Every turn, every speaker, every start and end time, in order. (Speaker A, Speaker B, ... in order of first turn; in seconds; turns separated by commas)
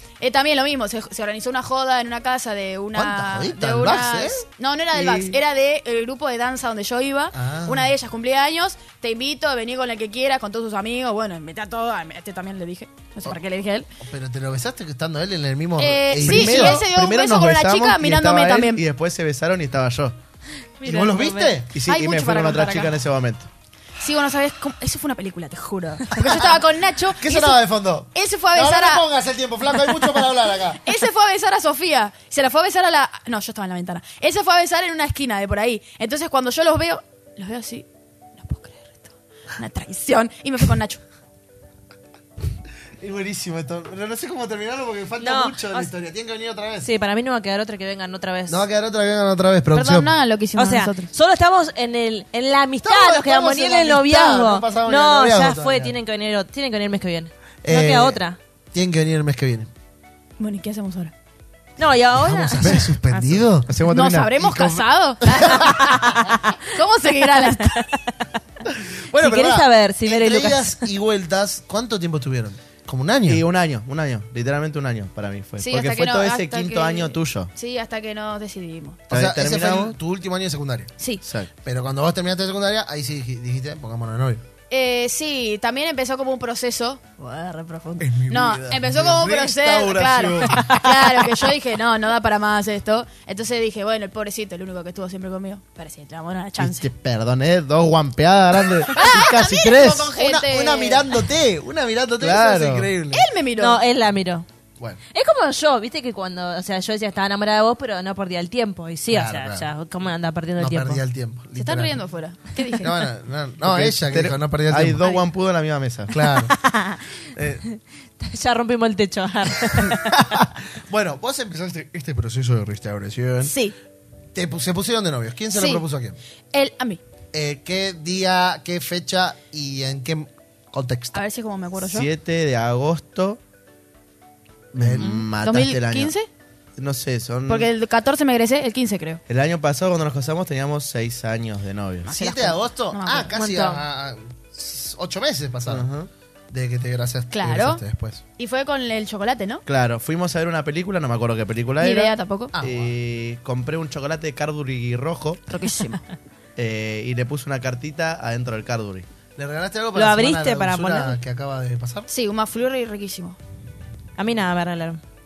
Speaker A: 0.2-13.9, Speaker B: 2.9-4.4, Speaker C: 4.9-5.4, Speaker B: 7.3-7.9, Speaker B: 14.0-16.9, Speaker A: 15.8-18.8, Speaker C: 16.1-20.1, Speaker D: 20.8-21.6, Speaker B: 20.8-21.7, Speaker C: 21.7-23.5, Speaker A: 21.8-22.9, Speaker A: 24.0-27.6, Speaker B: 26.1-26.6, Speaker B: 27.2-30.8, Speaker A: 28.1-29.1, Speaker A: 30.8-41.0, Speaker B: 43.0-46.9, Speaker D: 45.2-45.9, Speaker D: 46.8-48.7, Speaker B: 48.5-50.1, Speaker A: 49.7-51.1, Speaker D: 50.6-58.4, Speaker B: 52.8-56.0, Speaker B: 57.6-58.2, Speaker B: 58.7-59.7, Speaker A: 60.4-61.1, Speaker D: 61.8-63.5, Speaker B: 62.2-63.7, Speaker C: 63.6-64.8, Speaker A: 63.9-67.9, Speaker B: 65.4-65.7, Speaker D: 65.5-66.0, Speaker D: 67.4-67.8, Speaker B: 68.9-73.4, Speaker D: 69.2-70.8, Speaker C: 73.3-77.5, Speaker A: 75.6-79.0, Speaker C: 79.1-80.0, Speaker B: 79.1-80.9, Speaker C: 81.2-81.5, Speaker B: 81.6-84.4, Speaker A: 84.7-96.9, Speaker B: 88.0-90.8, Speaker C: 90.1-90.5, Speaker C: 96.6-100.1, Speaker A: 98.9-101.1, Speaker B: 100.1-103.3, Speaker C: 102.2-102.9, Speaker A: 103.1-103.8, Speaker D: 103.6-104.5, Speaker D: 105.1-111.0, Speaker B: 109.1-109.7, Speaker B: 110.6-112.0, Speaker A: 111.5-113.1, Speaker B: 112.8-115.0, Speaker C: 113.6-116.2, Speaker B: 116.1-116.6, Speaker D: 116.5-117.1, Speaker D: 117.6-120.2, Speaker B: 119.7-123.5, Speaker A: 123.4-123.7, Speaker B: 124.3-126.2, Speaker A: 125.5-125.8, Speaker A: 126.5-127.0, Speaker B: 127.3-131.2, Speaker A: 131.1-132.1, Speaker C: 131.8-133.4, Speaker C: 134.7-136.1, Speaker B: 134.8-135.2, Speaker A: 135.0-136.3, Speaker C: 136.8-137.7, Speaker A: 137.5-139.2, Speaker C: 139.3-142.1, Speaker A: 142.0-143.5, Speaker B: 142.1-145.9, Speaker D: 143.3-143.8, Speaker C: 145.7-146.1, Speaker B: 146.5-148.2, Speaker A: 147.3-147.8, Speaker A: 148.4-149.6, Speaker C: 149.7-155.4, Speaker A: 151.8-152.5, Speaker B: 152.5-152.9, Speaker A: 155.5-156.0, Speaker C: 156.6-159.1, Speaker B: 159.4-162.1, Speaker D: 159.9-161.2, Speaker A: 162.1-163.4, Speaker D: 164.2-165.0